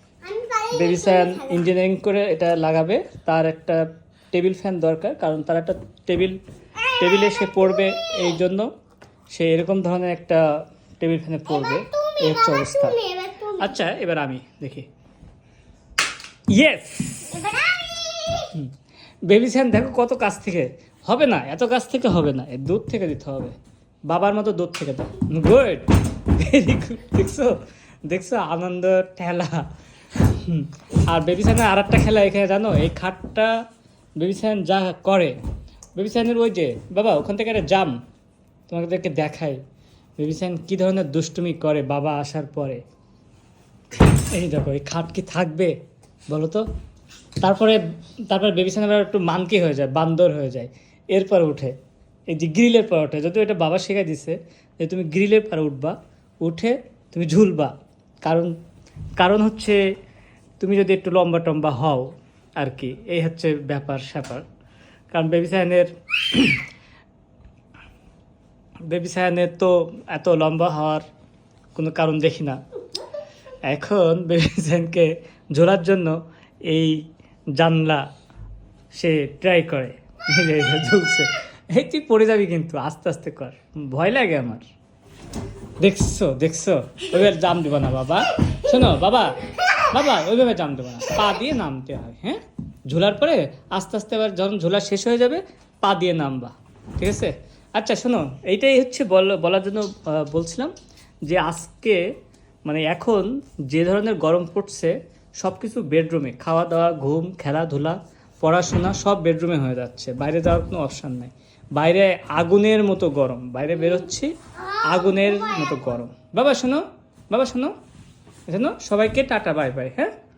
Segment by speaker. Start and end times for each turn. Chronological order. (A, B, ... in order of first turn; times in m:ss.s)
0:00.2-0:01.7 A
0:00.7-0:06.4 B
0:06.8-0:08.4 A
0:07.0-0:08.7 B
0:09.3-0:10.4 B
0:11.0-0:13.0 B
0:11.5-0:13.8 A
0:13.6-0:14.9 B
0:16.5-0:17.4 B
0:17.3-0:18.5 A
0:19.2-0:23.6 B
0:24.1-0:29.7 B
0:30.2-0:33.6 B
0:34.2-0:35.4 B
0:36.0-0:38.0 B
0:38.7-0:39.6 B
0:40.2-0:42.8 B
0:44.3-0:45.7 B
0:46.3-0:46.6 B
0:47.4-0:51.7 B
0:52.3-0:58.5 B
0:59.2-0:59.8 B
1:00.6-1:04.4 B
1:05.1-1:06.6 B
1:08.8-1:11.0 B
1:11.7-1:12.6 B
1:13.6-1:18.1 B
1:18.9-1:24.6 B
1:25.8-1:40.7 B
1:41.2-1:42.0 B
1:42.6-1:57.7 B
1:54.6-1:55.9 A
1:58.5-2:00.1 B